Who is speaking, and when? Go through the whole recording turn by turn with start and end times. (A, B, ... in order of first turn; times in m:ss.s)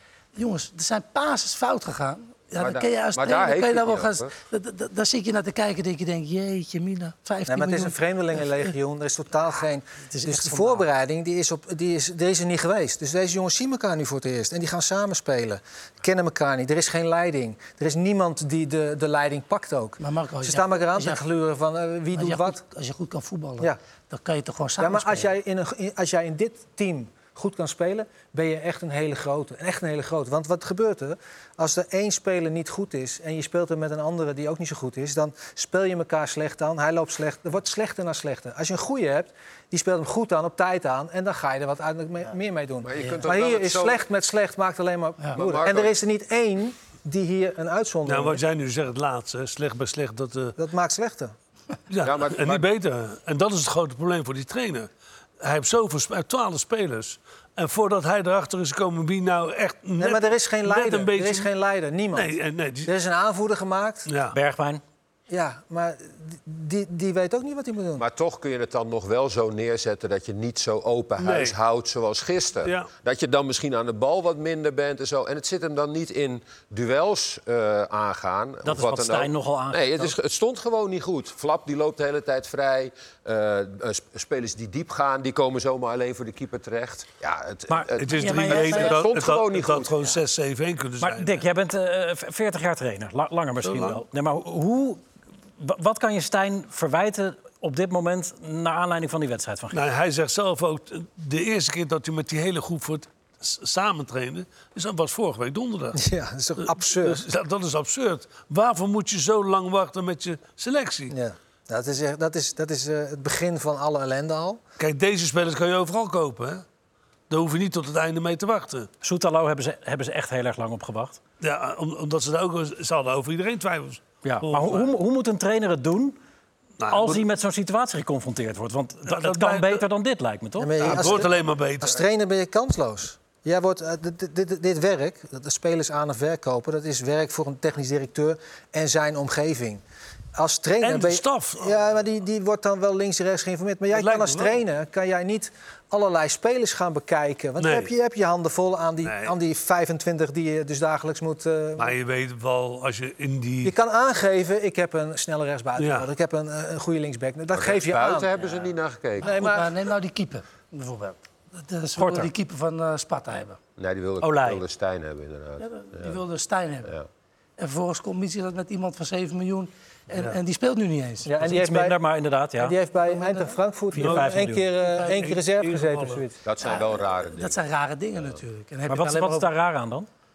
0:00.4-0:08.7 A
0:02.6-0:04.3 B
0:07.5-0:22.6 C
0:10.1-0:10.8 A
0:20.0-0:21.2 A
0:22.1-0:25.3 A
0:24.8-0:48.4 C
0:42.8-0:44.0 B
0:45.3-0:46.0 B
0:48.1-0:50.6 D
0:50.6-0:51.3 C
0:51.9-0:54.9 D
0:52.0-0:52.7 B
0:55.4-1:01.5 D
1:00.0-1:04.1 C
1:02.1-1:02.9 D
1:04.1-1:04.4 D
1:04.3-1:04.8 E
1:05.3-1:08.0 C
1:08.0-1:30.0 B
1:11.2-1:11.6 D
1:12.6-1:12.9 D
1:18.6-1:20.1 E
1:27.7-1:28.7 E
1:28.0-1:31.4 D
1:28.2-1:29.0 A
1:31.0-1:35.0 E
1:33.6-1:34.0 D
1:35.6-1:39.8 E
1:39.7-1:46.0 D
1:46.0-1:47.2 C
1:46.6-1:51.1 D
1:51.1-1:54.6 C
1:54.8-1:56.6 D
1:57.3-1:58.9 D
1:59.0-2:01.2 E
2:01.4-2:04.9 D
2:04.2-2:06.2 E
2:06.8-2:07.2 D
2:06.9-2:11.0 E
2:09.1-2:09.8 D
2:10.6-2:19.8 C
2:10.8-2:12.0 D
2:20.4-2:32.0 C
2:20.8-2:21.8 D
2:23.9-2:24.6 D
2:27.6-2:27.9 D
2:29.0-2:29.4 D
2:31.8-2:33.7 D
2:33.6-2:38.3 C
2:35.8-2:36.1 D
2:37.5-2:39.4 B
2:39.2-2:43.6 A
2:39.2-2:39.7 C
2:42.0-2:42.3 E
2:43.8-2:46.2 B
2:44.2-2:44.6 E
2:45.6-2:46.9 A
2:47.6-2:51.3 A
2:51.2-2:52.0 C
2:51.4-2:52.8 E
2:52.6-2:56.4 C
2:53.1-2:53.6 A
2:53.9-2:54.7 E
2:54.0-2:54.4 D
2:54.8-2:55.2 A
2:55.0-2:56.2 D
2:56.4-2:57.6 B
2:56.6-2:59.5 A
2:58.9-3:00.1 E